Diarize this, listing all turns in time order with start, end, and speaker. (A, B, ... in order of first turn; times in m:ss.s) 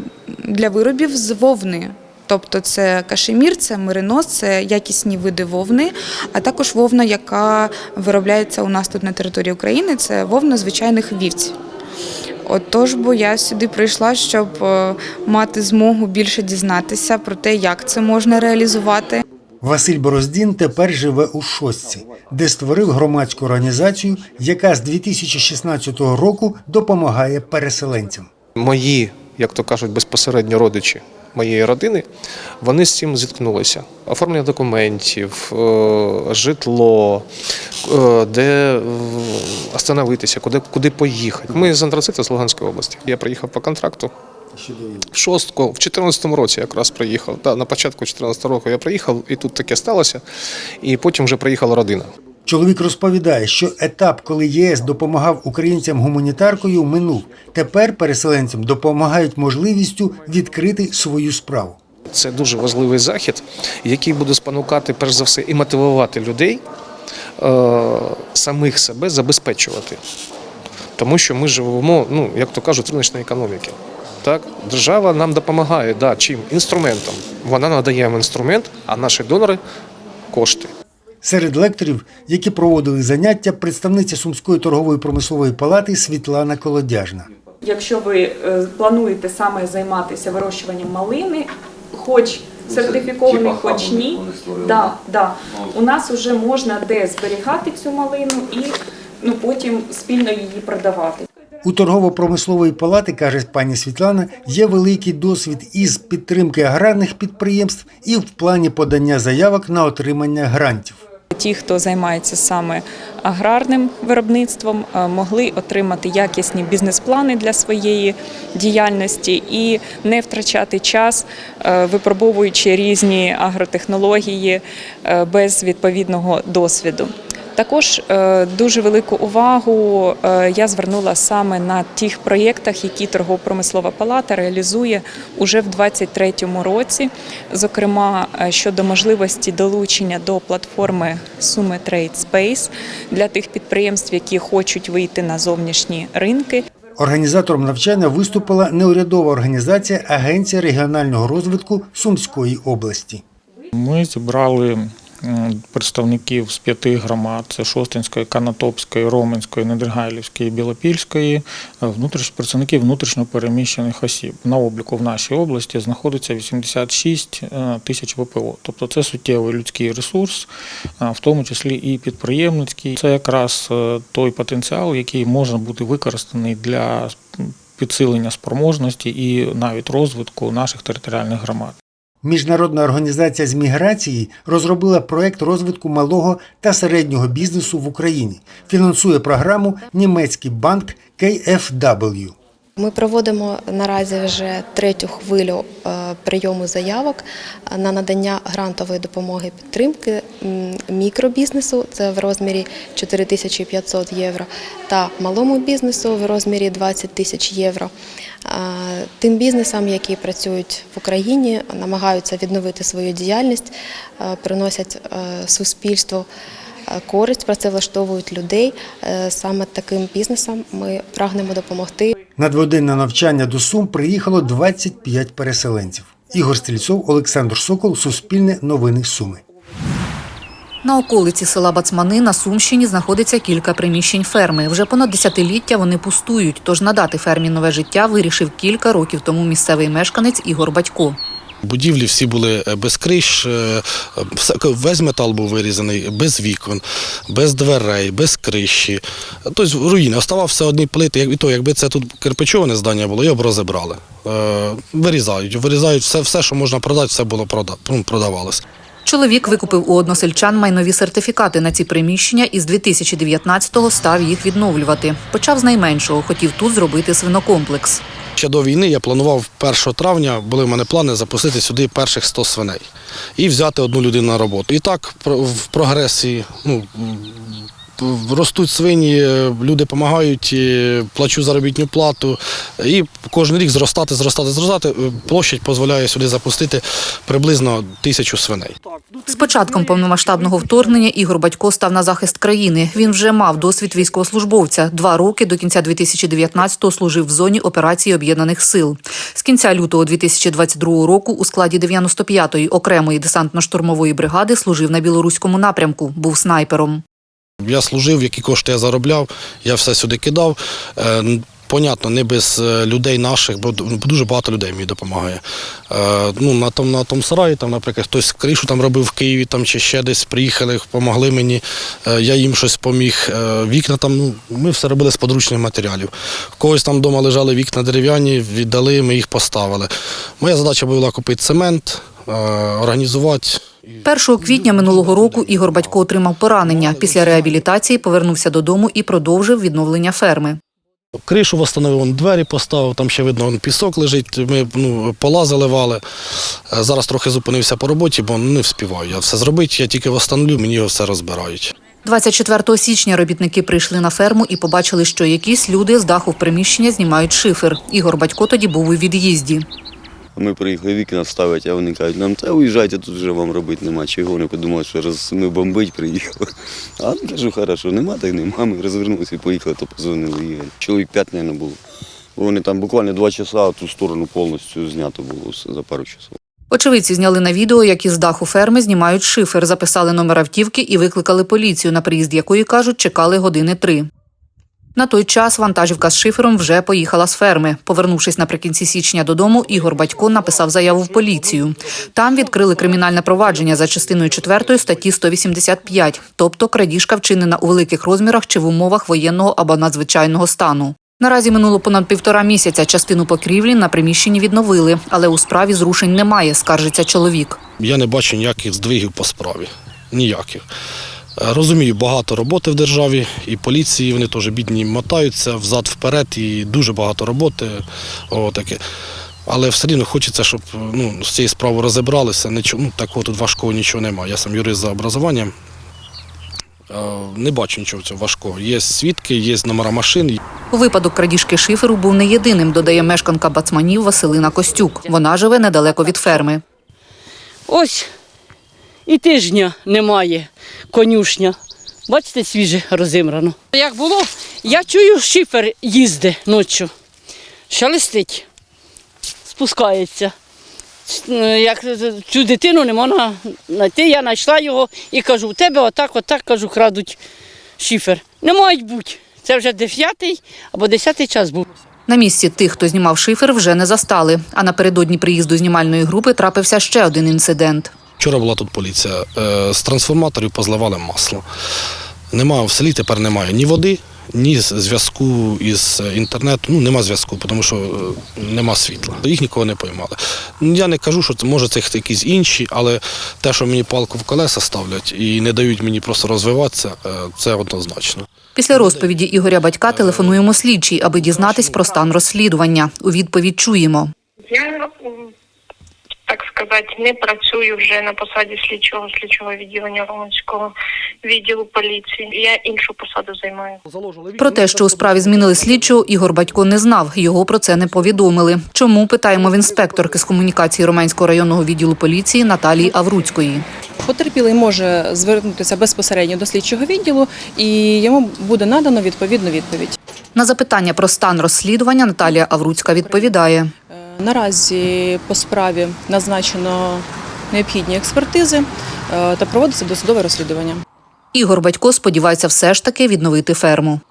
0:00.5-0:11.5 A
0:12.5-0:19.2 A
0:19.6-0:28.3 B
0:28.6-0:32.1 C
0:32.6-0:37.3 C
0:37.8-0:44.1 C
0:44.6-0:45.0 B
0:45.1-0:50.2 C
0:50.8-0:52.1 C
0:52.5-1:01.8 B
1:02.1-1:06.6 C
1:07.4-1:10.0 C
1:11.0-1:19.6 C
1:20.3-1:20.7 C
1:21.2-1:27.3 B
1:27.6-1:41.3 D
1:41.6-1:51.0 B
1:51.3-2:26.6 D
2:27.0-2:33.2 B
2:33.7-2:50.5 E
2:51.0-3:01.8 E
3:02.2-3:12.3 B
3:12.8-3:27.9 F
3:28.4-3:36.3 F
3:36.9-3:42.1 F
3:42.4-3:49.4 B
3:50.8-4:01.2 G
4:01.6-4:18.6 H
4:19.0-4:28.0 G
4:28.4-4:32.9 H
4:33.4-4:48.8 H
4:49.2-5:07.0 G
5:07.6-5:36.1 H
5:34.0-5:40.6 G
5:36.6-5:37.6 H
5:41.2-5:46.0 H
5:46.7-5:51.7 H
5:52.0-5:59.7 G
6:00.4-6:11.8 I
6:12.4-6:16.4 I
6:16.7-6:24.1 G
6:25.0-6:47.6 G
6:47.8-6:50.6 H
6:51.4-6:58.8 H
6:59.5-7:05.5 H
7:06.9-7:10.4 H
7:10.7-7:16.6 G
7:17.7-7:18.1 J
7:19.1-7:21.6 J
7:22.1-7:26.9 J
7:27.7-7:28.5 J
7:29.5-7:30.3 J
7:31.1-7:37.2 J
7:37.8-7:41.6 J
7:42.1-7:47.9 G
7:48.2-7:51.4 H
7:52.3-8:09.2 H
8:08.6-8:14.1 G
8:09.7-8:11.9 H
8:14.5-8:15.3 K
8:16.3-8:23.8 K
8:24.4-8:33.6 G
8:34.0-8:40.0 L
8:40.4-8:43.7 G
8:42.8-8:43.3 L
8:43.9-8:50.8 L
8:51.3-8:54.0 G